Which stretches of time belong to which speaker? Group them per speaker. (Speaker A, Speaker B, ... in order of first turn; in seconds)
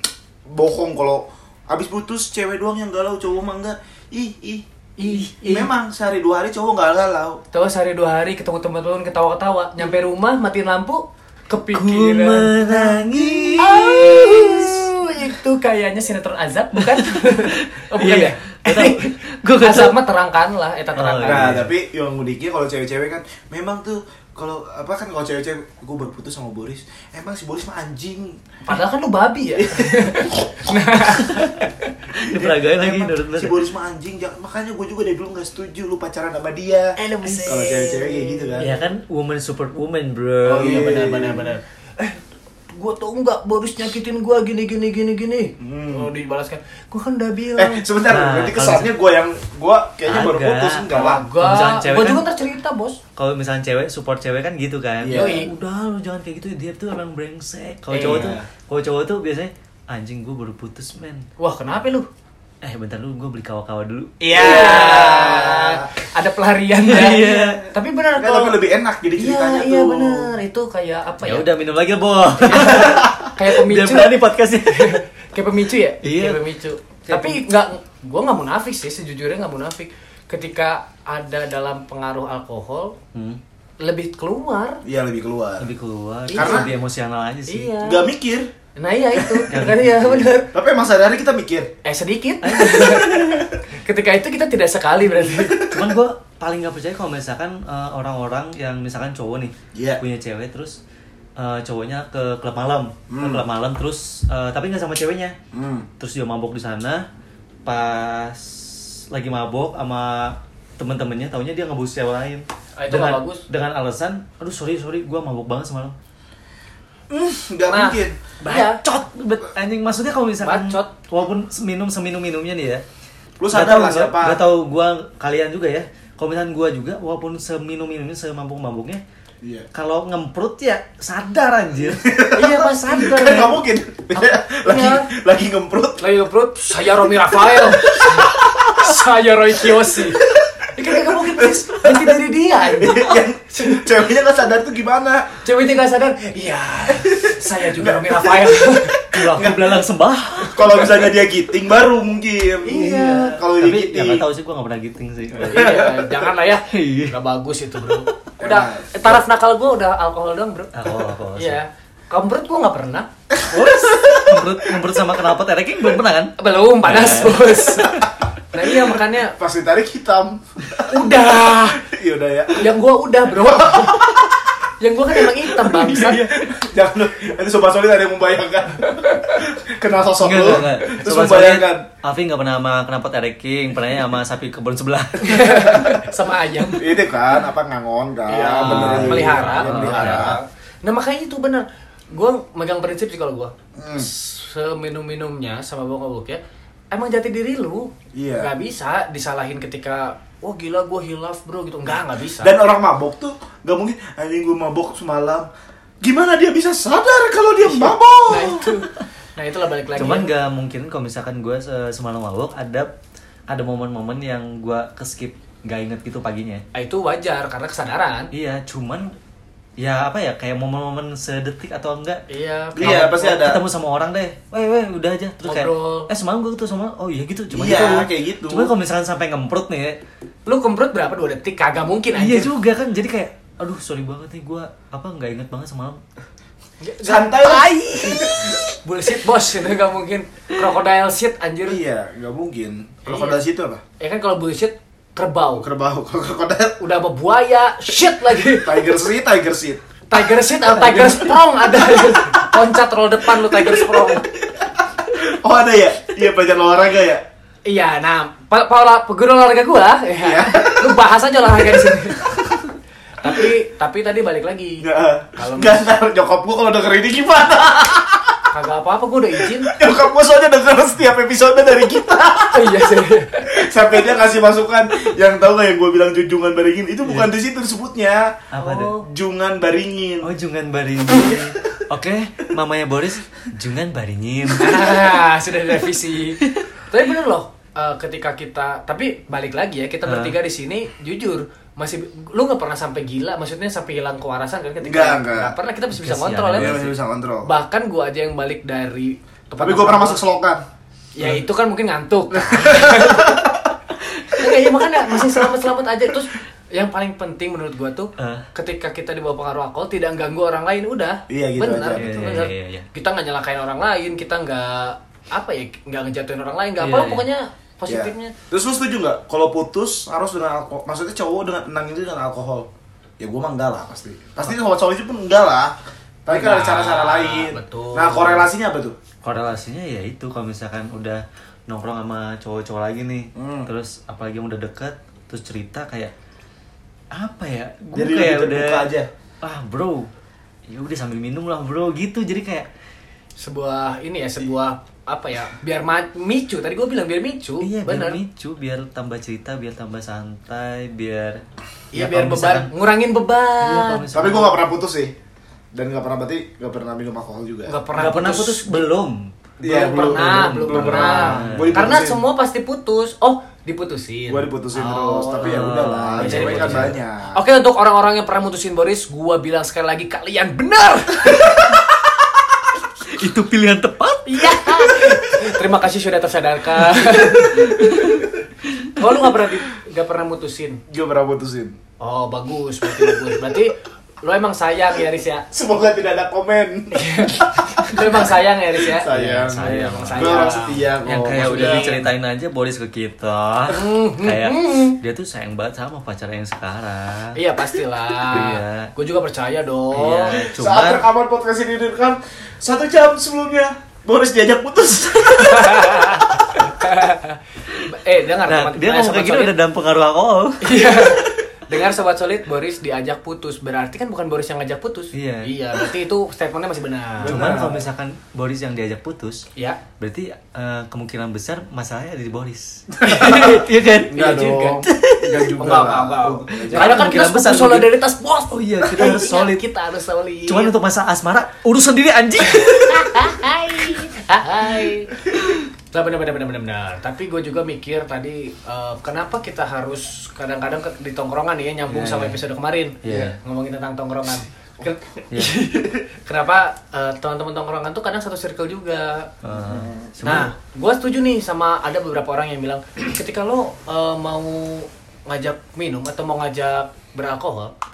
Speaker A: 0.5-7.4, 21.2-28.5, 29.6-30.4, 32.3-38.6, 40.5-41.5, 45.6-46.1, 47.6-51.2, 55.0-55.4, 58.0-58.5, 64.3-65.9, 66.9-70.3, 72.6-73.3, 84.8-85.7, 86.3-86.7, 87.8-88.5, 89.1-89.5, 90.5-91.7, 95.2-95.9, 99.7-100.0, 103.1-103.4, 105.5-105.9, 117.1-118.2, 123.4-124.4, 131.9-136.1, 137.5-138.7, 140.1-145.3, 146.9-149.8, 150.4-154.3, 155.4-156.3, 158.4-159.2, 169.3-172.7, 173.3-174.4, 175.2-181.9, 185.6-186.0, 186.7-190.4, 193.8-194.1, 198.1-198.5, 202.4-205.5, 206.0-208.7, 222.7-223.6, 227.5-228.7, 237.0-238.6, 241.6-243.8, 245.6-246.8, 248.4-249.8, 250.7-252.5, 253.5-254.2, 254.8-257.2, 260.2-261.0, 264.8-268.4, 269.4-272.9, 273.4-278.4, 279.0-280.3, 294.8-295.5, 296.5-297.5, 299.6-300.6, 302.4-303.5, 304.4-305.4, 311.3-312.2, 317.9-322.7, 323.2-328.9, 333.3-333.7, 337.9-339.1, 354.1-355.1, 355.7-357.7, 359.6-362.2, 364.3-367.4, 380.9-381.8, 385.5-392.0, 400.3-406.2, 417.2-417.8, 423.0-427.1, 443.1-443.3, 449.5-450.1
Speaker B: 5.0-5.7, 7.5-12.9, 13.6-21.5, 28.7-31.9, 37.0-38.8, 40.5-47.8, 50.9-53.0, 55.1-55.5, 57.9-58.4, 61.4-62.1, 64.2-68.6, 69.2-71.5, 72.4-83.0, 83.8-84.8, 86.3-86.7, 87.5-88.0, 88.8-90.5, 91.8-95.7, 112.8-113.4, 117.7-118.8, 120.4-120.9, 132.3-133.6, 134.2-135.1, 136.0-140.2, 140.7-143.8, 145.4-149.1, 152.7-153.3, 155.4-164.0, 166.4-169.4, 170.9-171.8, 172.6-174.1, 174.8-176.3, 178.9-179.3, 185.2-186.9, 188.3-202.6, 207.6-210.3, 216.7-218.3, 222.3-223.1, 225.4-226.1, 230.4-232.5, 236.8-241.8, 243.1-243.4, 244.0-245.7, 246.8-248.9, 250.1-254.2, 257.6-262.4, 263.2-264.8, 265.4-265.8, 268.5-269.7, 272.5-273.5, 278.6-279.1, 284.6-296.8, 297.4-300.2, 301.1-303.5, 304.3-318.3, 326.3-328.5, 343.4-348.2, 351.9-354.1, 357.7-358.8, 359.6-365.6, 366.2-371.7, 374.2-378.2, 378.9-380.8, 382.0-385.5, 386.9-392.1, 393.7-395.0, 397.3-400.4, 405.4-409.5, 410.6-417.5, 419.6-419.8, 425.6-430.7, 432.4-435.1, 435.9-449.3, 450.2-457.7
Speaker C: 11.7-14.9, 16.8-20.0, 20.9-21.7, 32.1-33.6, 38.6-40.8, 48.0-48.9, 50.0-52.2, 53.1-61.2, 62.6-65.1, 66.8-67.7, 71.2-75.0, 76.0-76.4, 77.0-77.4, 83.1-83.4, 85.6-87.7, 89.5-90.4, 92.4-93.4, 95.6-100.8, 101.4-105.3, 106.0-107.0, 107.7-115.9, 118.4-122.8, 123.5-129.0, 129.7-132.1, 149.1-151.1, 152.8-155.7, 156.7-157.1, 160.7-161.6, 163.6-168.0, 180.2-185.7, 188.6-190.4, 209.9-212.9, 213.5-216.6, 218.3-219.1, 219.8-222.2, 222.8-230.0, 232.1-236.0, 277.0-277.3, 278.5-279.0, 280.2-284.9, 290.0-290.4, 295.9-297.0, 308.2-308.4, 311.9-312.9, 316.8-317.3, 329.2-336.1, 337.1-338.9, 339.4-340.1, 340.7-342.7, 347.6-351.4, 351.9-352.7, 353.6-354.6, 357.9-359.3, 359.9-361.9, 365.4-366.9, 373.1-375.2, 376.8-378.9, 389.3-390.4, 391.0-397.4, 398.3-398.9, 399.9-401.1, 408.4-411.2, 415.1-415.5, 417.2-419.4, 420.0-425.5, 426.5-427.9, 428.5-429.6, 430.5-433.3, 441.9-442.4, 443.0-443.4, 445.3-445.6, 449.4-450.5